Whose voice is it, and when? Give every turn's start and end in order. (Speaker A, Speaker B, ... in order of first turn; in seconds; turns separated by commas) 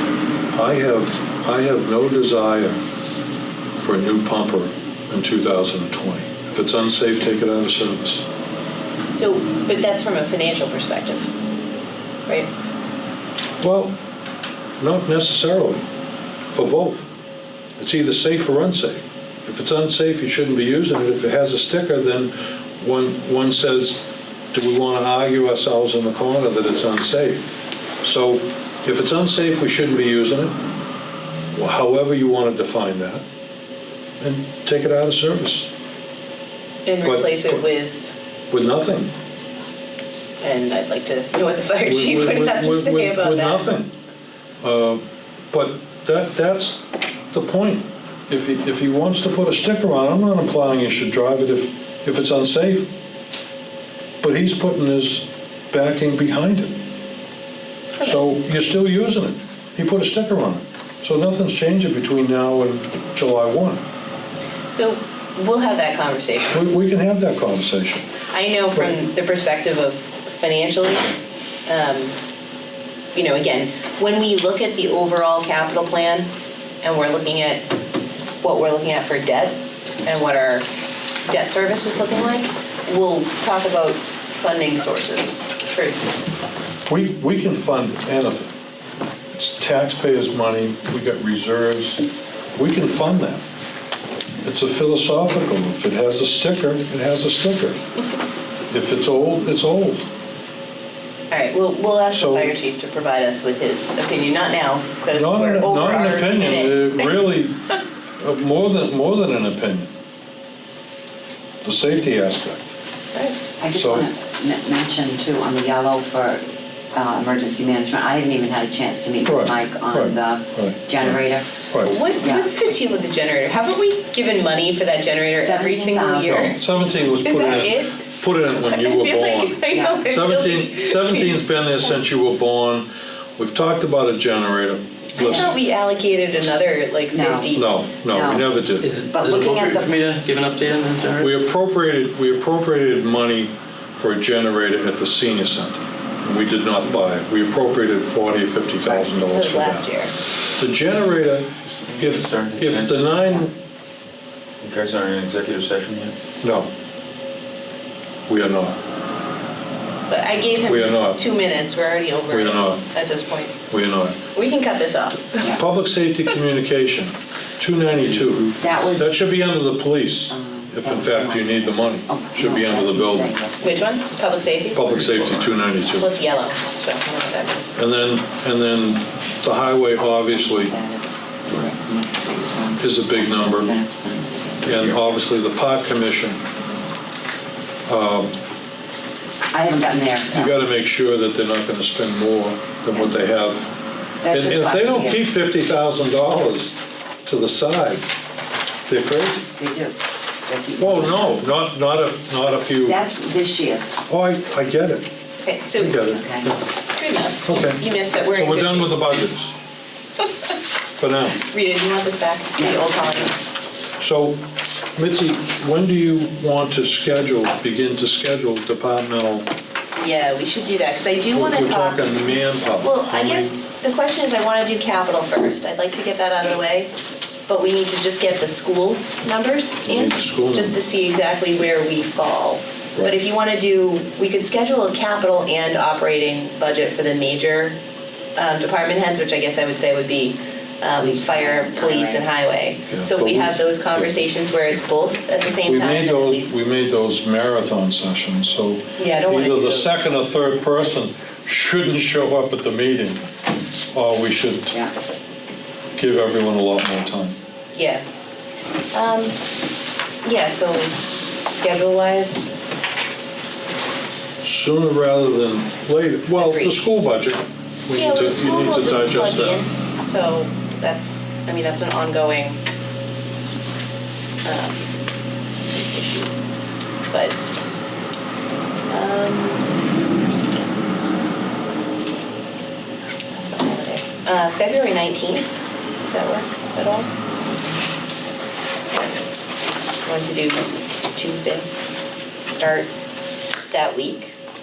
Speaker A: 0.5-2.8, Speaker A: 3.8-8.2, Speaker B: 9.1-11.3, Speaker A: 13.6-13.9, Speaker A: 14.8-15.8, Speaker A: 16.5-17.1, Speaker A: 17.8-27.5, Speaker A: 28.0-30.6, Speaker A: 31.5-33.2, Speaker A: 34.2-35.7, Speaker B: 36.9-38.0, Speaker A: 37.0-37.7, Speaker A: 38.5-39.1, Speaker B: 40.4-43.7, Speaker A: 41.9-43.9, Speaker A: 44.6-52.9, Speaker A: 54.2-56.8, Speaker A: 58.0-63.8, Speaker B: 64.7-66.7, Speaker A: 66.5-68.1, Speaker B: 68.3-71.1, Speaker B: 71.7-72.1, Speaker B: 73.1-76.3, Speaker B: 76.8-77.7, Speaker B: 78.4-80.7, Speaker B: 81.2-86.0, Speaker A: 86.9-88.5, Speaker A: 89.3-92.0, Speaker A: 92.5-93.4, Speaker A: 94.4-97.8, Speaker A: 98.7-100.1, Speaker B: 101.3-107.1, Speaker A: 102.1-102.5, Speaker A: 105.1-107.5, Speaker A: 108.2-109.9, Speaker A: 111.6-112.7, Speaker C: 113.6-116.4, Speaker A: 113.7-114.1, Speaker C: 116.9-121.5, Speaker A: 119.2-121.9, Speaker B: 121.8-128.0, Speaker C: 122.2-122.5, Speaker C: 125.4-126.5, Speaker A: 126.3-135.5, Speaker B: 128.6-131.4, Speaker C: 129.7-130.1, Speaker B: 135.2-137.8, Speaker C: 137.1-137.5, Speaker A: 137.5-138.9, Speaker C: 138.1-139.9, Speaker D: 138.8-141.3, Speaker A: 141.2-149.9, Speaker B: 148.8-150.1, Speaker A: 150.6-153.5, Speaker E: 151.7-153.3, Speaker E: 154.6-156.2, Speaker A: 156.4-156.7, Speaker A: 158.3-158.8, Speaker B: 160.1-163.6, Speaker A: 160.6-161.2, Speaker A: 162.3-162.8, Speaker A: 163.7-164.2, Speaker B: 164.3-165.6, Speaker A: 165.4-173.3, Speaker C: 168.6-169.1, Speaker C: 170.3-173.9, Speaker B: 173.6-174.9, Speaker A: 174.7-176.1, Speaker E: 174.9-175.5, Speaker B: 175.9-177.8, Speaker A: 177.8-180.7, Speaker C: 179.9-185.2, Speaker A: 182.8-183.7, Speaker A: 184.6-186.4, Speaker A: 187.8-188.3, Speaker C: 189.5-190.6, Speaker A: 190.3-193.7, Speaker C: 194.2-195.3, Speaker A: 194.3-198.0, Speaker A: 198.9-199.4, Speaker C: 199.6-201.4, Speaker A: 200.8-203.0, Speaker C: 202.8-204.0, Speaker A: 204.1-205.1, Speaker B: 205.4-206.0, Speaker A: 205.8-206.6, Speaker C: 206.0-206.5, Speaker B: 206.9-209.1, Speaker A: 207.4-209.5, Speaker A: 211.0-211.4, Speaker B: 211.4-213.3, Speaker C: 212.6-213.3, Speaker A: 214.0-214.4, Speaker A: 214.9-219.4, Speaker B: 219.9-226.9, Speaker A: 221.3-223.6, Speaker B: 227.5-237.8, Speaker A: 229.8-230.8, Speaker B: 238.4-246.6, Speaker C: 241.0-242.3, Speaker A: 242.9-244.1, Speaker A: 245.6-253.2, Speaker B: 249.0-250.2, Speaker A: 253.9-254.8, Speaker A: 255.9-257.4, Speaker B: 257.7-258.0, Speaker B: 258.9-259.3, Speaker B: 260.2-262.5, Speaker A: 264.4-269.6, Speaker B: 266.4-266.8, Speaker B: 267.9-272.6, Speaker B: 274.4-274.9, Speaker B: 275.6-276.3, Speaker B: 277.1-277.4, Speaker B: 278.9-279.7, Speaker B: 283.3-287.1, Speaker B: 290.0-291.7, Speaker B: 292.5-292.9, Speaker B: 293.7-294.3